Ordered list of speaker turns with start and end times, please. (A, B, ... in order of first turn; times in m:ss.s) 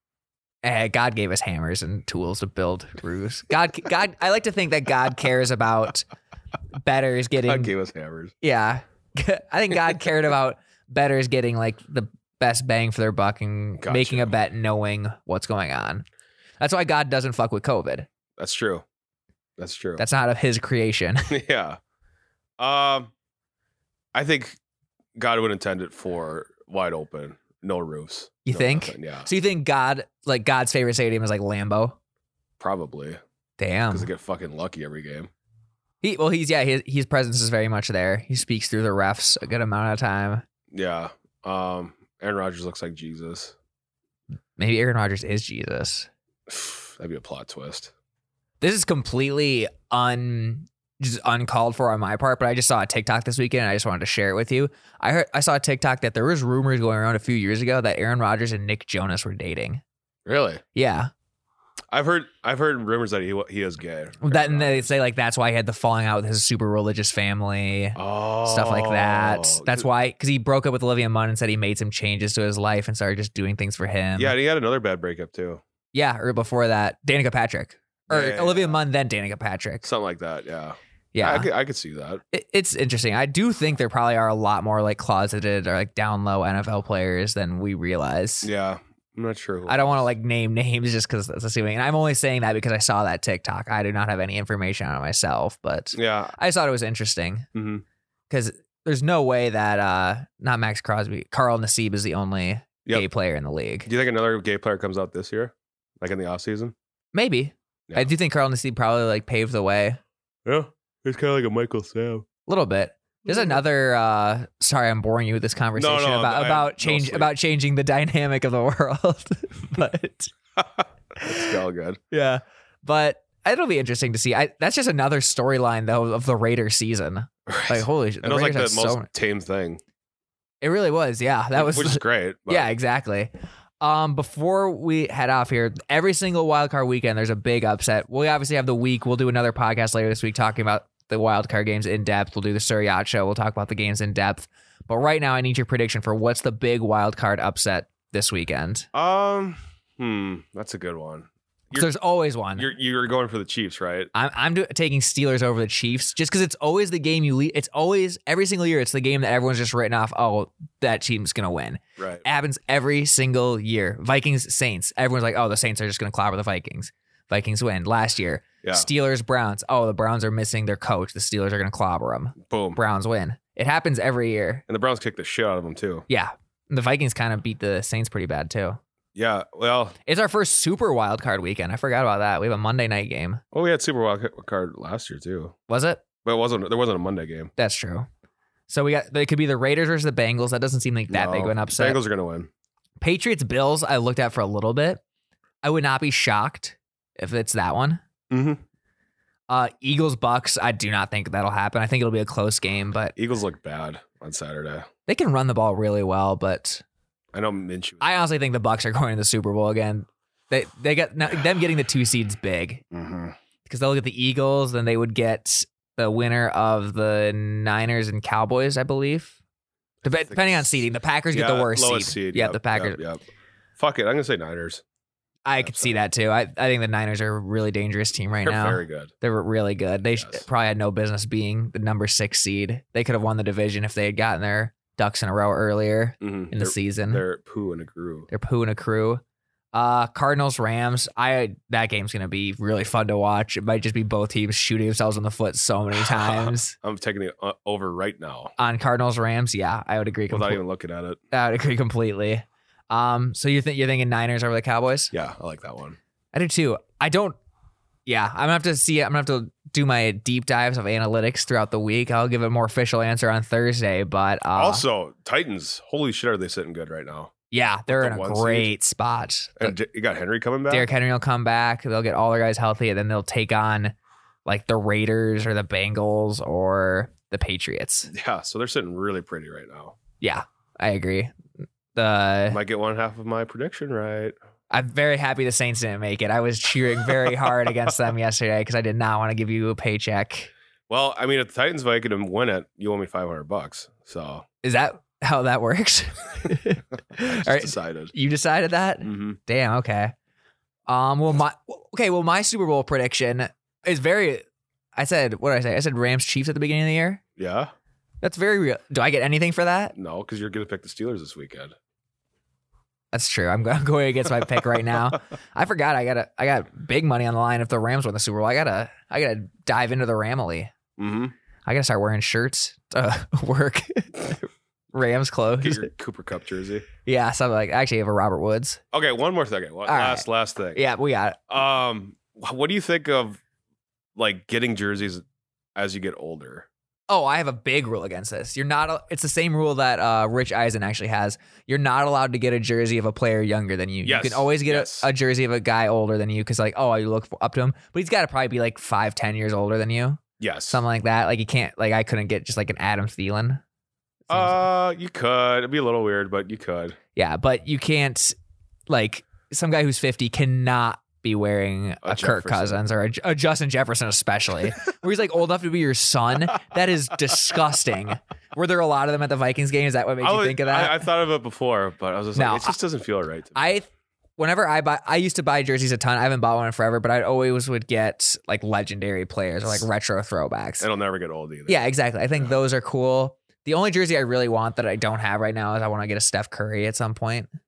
0:00.6-0:06.0 A
0:06.8-0:07.7 A
0:07.4-0:08.3 B
0:08.4-0:16.0 A
0:13.8-0:14.3 B
0:16.6-0:18.1 A
0:18.4-0:18.8 B
0:19.6-0:20.0 B
0:20.0-0:21.4 A
0:21.3-0:21.8 B
0:22.6-0:23.1 B
0:24.1-0:24.6 B
0:25.2-0:29.3 B
0:28.4-0:32.0 A
0:32.6-0:33.2 B
0:33.6-0:34.1 A
0:33.9-0:35.3 B
0:36.0-0:40.4 A
0:40.7-0:43.6 B
0:44.6-0:46.1 A
0:46.5-0:47.9 B
0:48.6-0:59.8 A
1:00.2-1:00.6 B
1:00.7-1:01.1 A
1:01.9-1:04.9 B
1:04.2-1:14.3 A
1:08.0-1:09.9 B
1:14.2-1:15.6 B
1:15.9-1:19.8 A
1:18.1-1:18.8 B
1:19.8-1:22.2 B
1:21.1-1:21.5 A
1:22.3-1:28.5 A
1:28.4-1:30.1 B
1:29.7-1:37.5 A
1:35.9-1:36.3 B
1:37.5-1:37.8 B
1:38.3-1:43.9 A
1:43.8-1:46.7 B
1:47.1-1:50.0 A
1:50.4-1:52.3 B
1:52.4-2:00.3 A
1:55.8-1:57.3 B
2:01.2-2:01.5 A
2:01.2-2:02.0 B
2:02.1-2:09.1 A
2:07.5-2:09.8 B
2:10.6-2:28.9 A
2:11.6-2:12.7 B
2:28.9-2:31.9 B
2:31.7-2:32.7 A
2:32.6-2:34.1 B
2:34.1-2:54.6 A
2:42.0-2:42.2 B
2:52.4-2:52.8 B
2:54.7-2:56.0 B
2:56.1-2:58.8 A
2:59.1-3:00.0 B
3:00.0-3:03.4 A
3:03.5-3:05.6 B
3:05.7-3:06.0 A
3:06.2-3:07.5 B
3:07.6-3:08.0 A
3:08.7-3:12.0 A
3:11.1-3:12.5 B
3:13.0-3:15.0 A
3:15.6-3:18.0 A
3:18.3-3:18.6 B
3:19.5-3:23.1 A
3:23.2-3:24.9 B
3:25.1-3:26.8 A
3:27.3-3:28.2 B
3:28.0-3:32.8 A
3:32.9-3:33.4 B
3:33.6-3:39.4 A
3:40.0-3:43.0 A
3:40.0-3:43.2 B
3:43.8-3:44.8 B
3:45.4-3:57.2 A
3:45.6-3:46.0 B
3:48.4-3:49.1 B
3:50.1-3:50.4 B
3:56.2-3:58.3 B
3:58.3-3:59.2 A
3:59.7-4:06.7 A
4:06.0-4:08.5 B
4:08.6-4:10.6 A
4:10.3-4:11.2 B
4:11.3-4:15.1 A
4:15.1-4:16.0 B
4:16.3-4:17.4 A
4:18.0-4:24.8 A
4:24.5-4:27.3 B
4:27.5-4:29.7 A
4:27.9-4:28.7 B
4:29.6-4:30.9 B
4:30.7-4:38.1 A
4:38.1-4:40.0 B
4:40.2-4:41.3 A
4:41.9-4:42.6 A
4:42.5-4:44.3 B
4:44.7-4:50.5 A
4:50.9-4:54.4 B
4:54.6-5:00.1 A
4:57.2-4:58.1 B
4:59.0-4:59.4 B
5:00.9-5:04.4 A
5:05.0-5:07.2 A
5:07.4-5:07.7 B
5:08.2-5:09.9 A
5:10.0-5:11.7 B
5:13.1-5:20.7 A
5:21.0-5:21.3 B
5:21.6-5:25.9 A
5:25.6-5:26.8 B
5:27.0-5:28.8 A
5:28.9-5:30.8 B
5:29.8-5:31.4 A
5:31.5-5:33.4 B
5:34.2-5:35.2 B
5:35.8-5:36.7 B
5:37.1-5:53.6 A
5:44.0-5:45.1 B
5:50.4-5:50.8 B
5:54.3-5:54.6 A
5:54.3-5:57.0 B
5:57.1-5:58.4 A
5:58.9-6:11.0 A
6:02.0-6:02.8 B
6:10.2-6:13.7 B
6:12.3-6:12.8 A
6:13.6-6:20.9 A
6:20.8-6:22.6 B
6:21.7-6:27.5 A